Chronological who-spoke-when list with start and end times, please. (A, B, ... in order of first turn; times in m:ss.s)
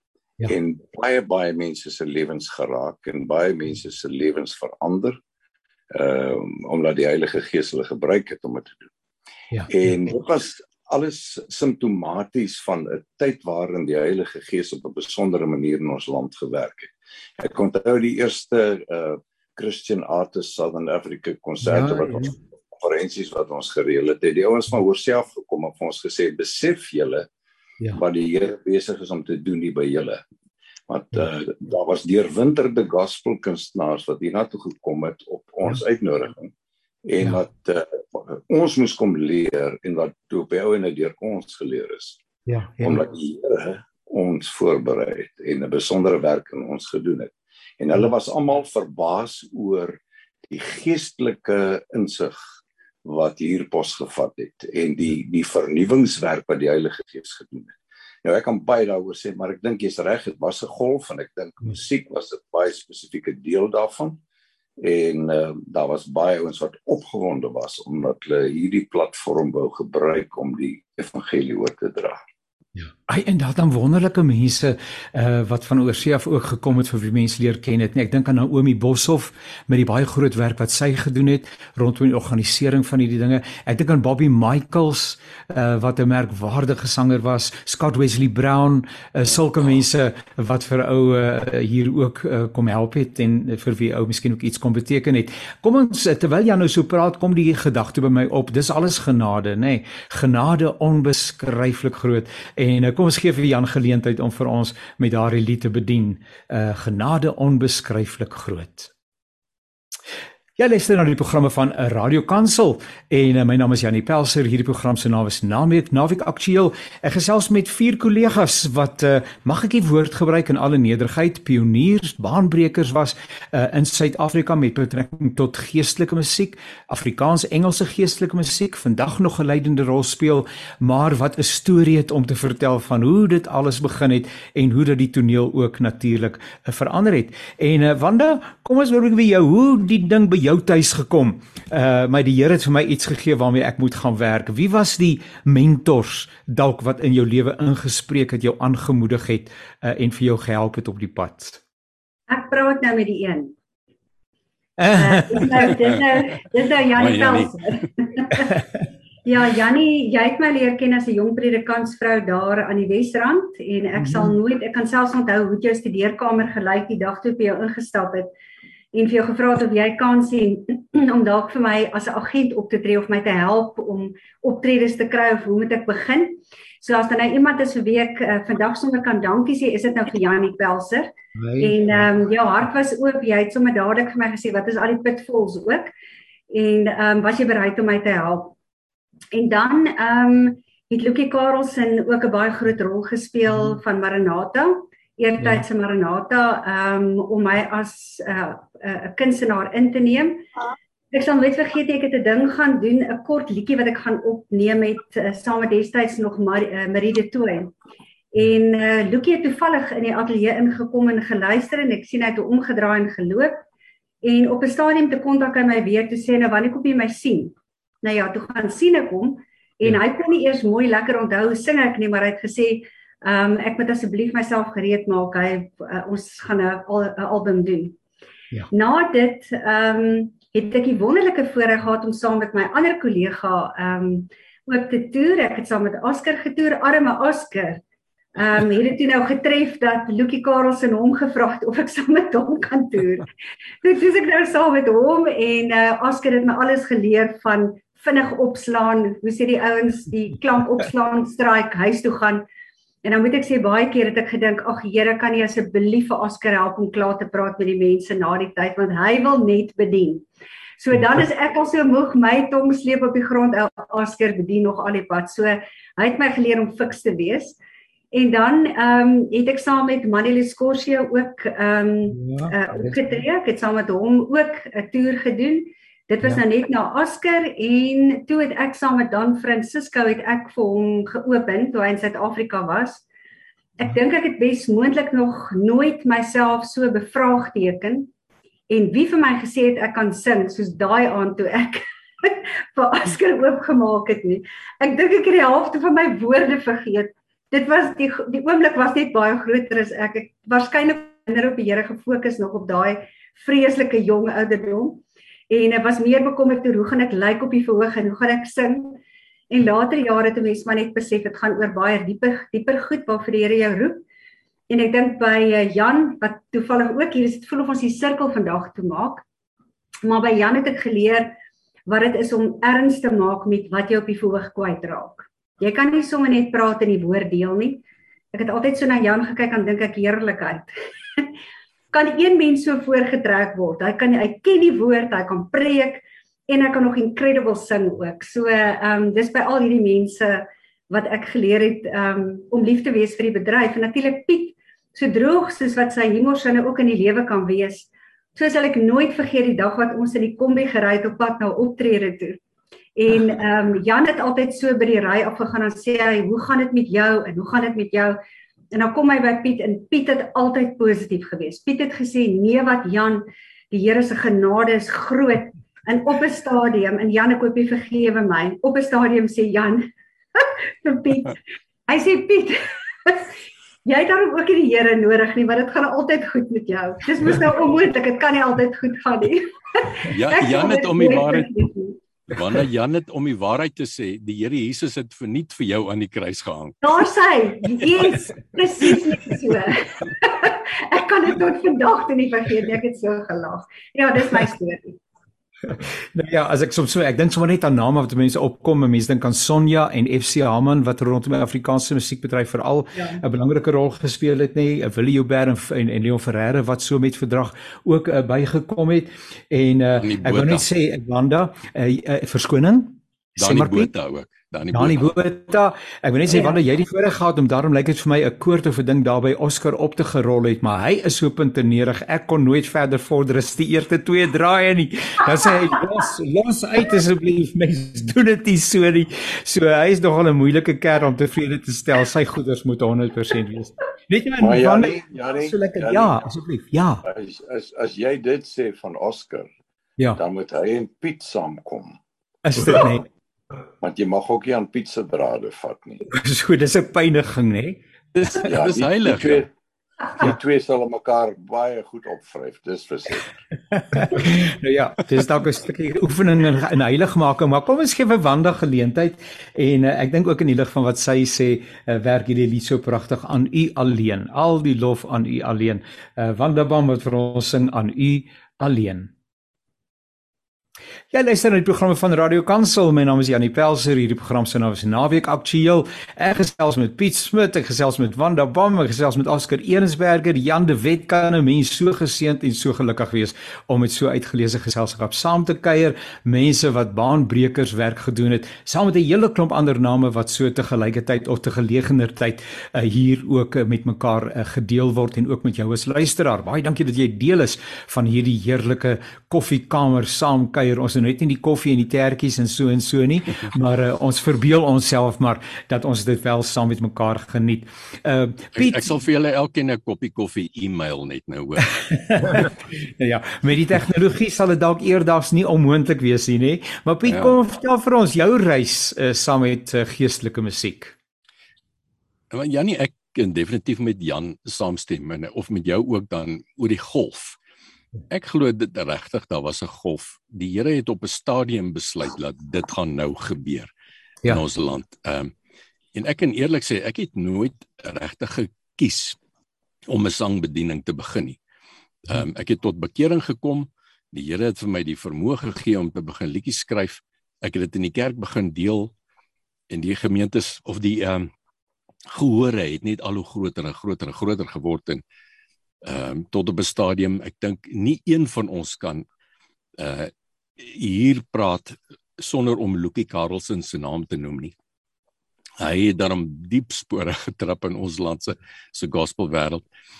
0:00.5-0:05.2 A
0:05.9-0:08.9 A
0:09.7-0:27.3 A
0:21.6-0:22.3 B
0:27.9-0:30.2 A
0:30.9-0:36.5 A
0:37.0-0:42.2 A
0:42.5-0:43.0 B
0:42.8-0:52.4 A
0:53.0-1:04.2 A
1:04.8-1:12.2 A
1:12.8-1:48.9 B
1:50.6-2:31.6 B
2:32.3-2:33.5 C
2:34.8-2:35.7 B
2:35.0-2:38.6 C
2:36.9-2:37.5 D
2:39.2-2:48.3 C
2:44.0-2:44.4 B
2:48.9-3:05.9 C
3:01.4-3:02.0 B
3:06.5-3:08.5 C
3:09.3-3:20.5 C
3:15.4-3:15.6 B
3:21.1-3:27.7 C
3:28.3-3:33.6 C
3:34.2-3:48.0 C
3:48.7-3:57.8 C
3:58.3-4:03.3 C
4:03.8-4:12.4 C
4:13.0-4:20.2 C
4:20.8-4:27.6 C
4:28.1-4:43.0 C
4:32.1-4:33.0 B
4:43.8-4:48.1 C
4:48.7-5:09.0 C
5:09.5-5:14.0 C
5:14.7-5:19.2 C
5:20.0-5:21.3 C
5:21.9-5:31.3 C
5:31.9-5:52.4 C
5:53.0-5:58.2 C
5:58.7-6:13.3 C
6:13.8-6:22.0 C
6:20.0-6:21.6 D
6:22.3-6:26.9 D
6:26.8-6:35.0 C
6:35.7-6:53.9 B
6:42.9-6:43.2 C
6:50.0-6:50.6 D
6:53.4-6:55.1 D
6:54.7-7:17.0 B
7:14.4-7:16.2 A
7:17.0-7:19.5 A
7:20.2-7:22.0 A
7:22.4-7:23.0 B
7:23.8-7:26.0 A
7:26.1-7:27.8 B
7:28.1-7:29.4 D
7:28.4-7:29.5 A
7:30.2-7:33.3 A
7:33.8-7:49.1 B
7:51.1-8:28.9 B
8:28.5-8:32.5 D
8:31.9-8:40.9 B
8:37.0-8:37.4 D
8:42.3-8:47.4 D
8:48.1-8:53.7 D
8:54.3-8:55.3 D
8:55.9-8:59.2 D
8:59.9-9:01.4 D
9:02.0-9:08.9 D
9:09.7-9:11.3 D
9:12.1-9:15.0 D
9:15.8-9:19.0 D
9:19.8-9:24.5 D
9:25.6-9:29.6 D